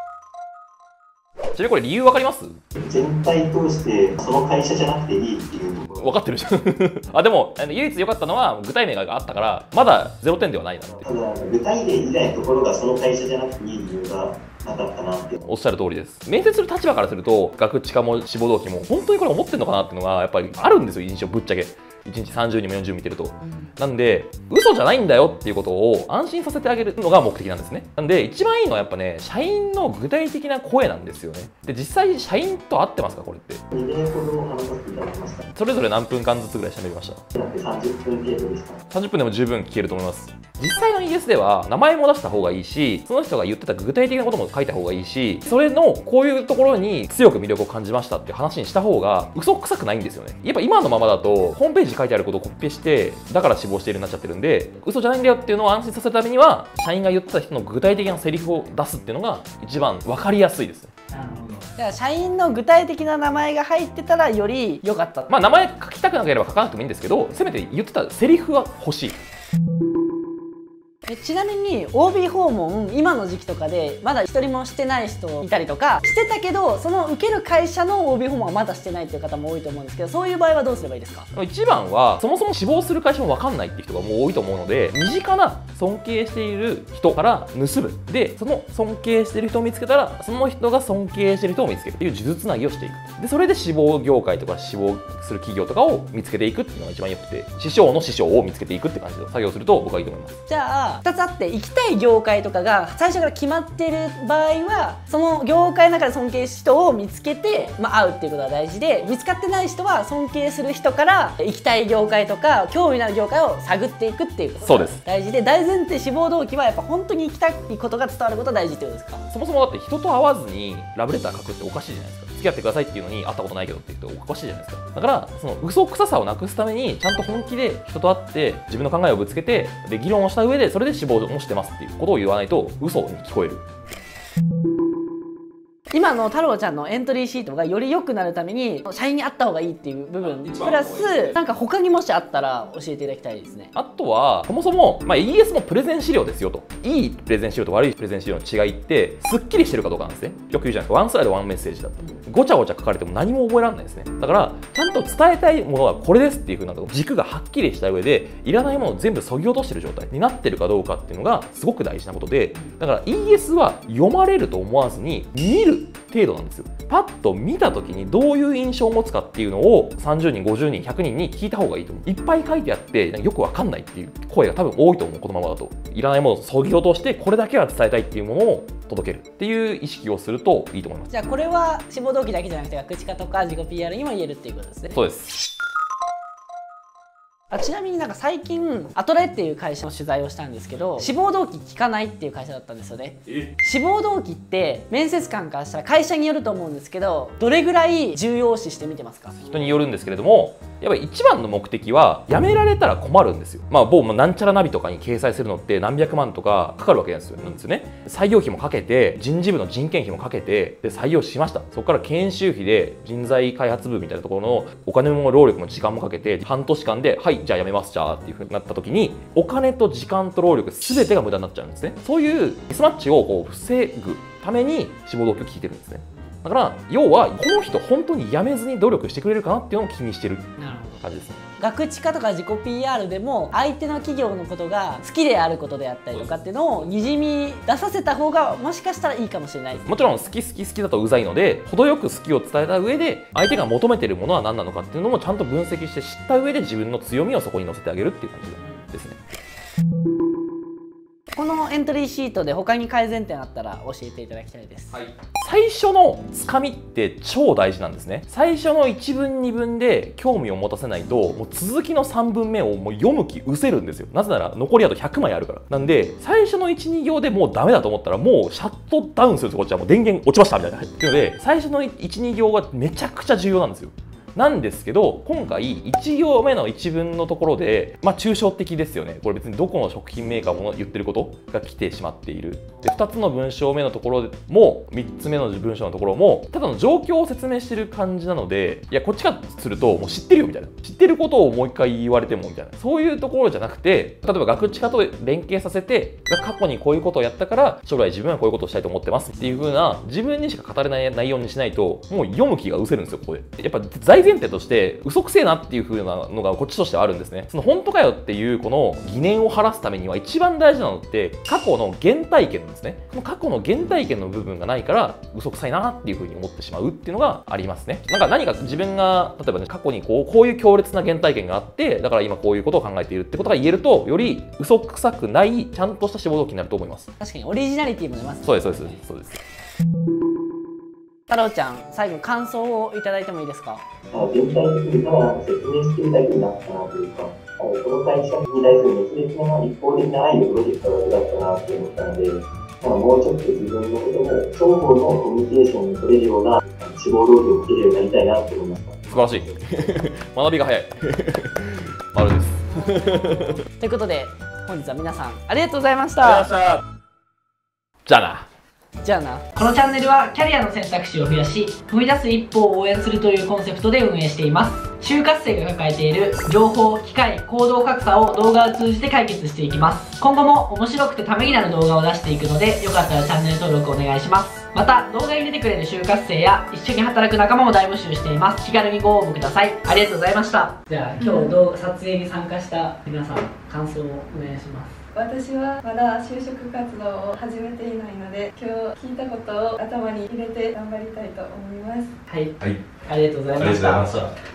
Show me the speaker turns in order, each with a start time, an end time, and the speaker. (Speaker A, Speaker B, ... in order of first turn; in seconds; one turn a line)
Speaker A: 1.5-2.6
Speaker B: 2.8-6.1
Speaker A: 6.0-11.1
Speaker B: 11.0-15.4
Speaker A: 15.4-33.6
Speaker B: 33.7-35.4
Speaker A: 35.5-37.2
Speaker B: 37.3-38.8
Speaker A: 38.9-60.9
Speaker C: 61.1-65.3
Speaker A: 65.3-69.2
Speaker C: 71.1-81.3
Speaker A: 81.3-100.4
Speaker C: 100.5-119.2
Speaker A: 114.6-115.0
Speaker A: 119.3-133.6
Speaker C: 135.9-143.7
Speaker A: 140.2-141.3
Speaker A: 143.7-181.1
Speaker C: 181.1-184.9
Speaker A: 184.9-185.3
Speaker C: 187.5-199.3
Speaker A: 199.4-230.5
Speaker C: 230.6-231.0
Speaker A: 231.0-231.4
Speaker C: 231.6-240.1
Speaker A: 236.1-236.9
Speaker A: 239.8-249.2
Speaker C: 251.3-254.9
Speaker A: 254.9-327.1
Speaker C: 327.2-329.0
Speaker A: 328.4-329.4
Speaker C: 331.3-333.8
Speaker B: 334.1-349.5
Speaker A: 349.1-353.6
Speaker C: 353.8-356.7
Speaker A: 358.1-358.5
Speaker C: 359.0-385.0
Speaker D: 381.2-381.6
Speaker D: 385.1-392.2
Speaker C: 392.3-394.3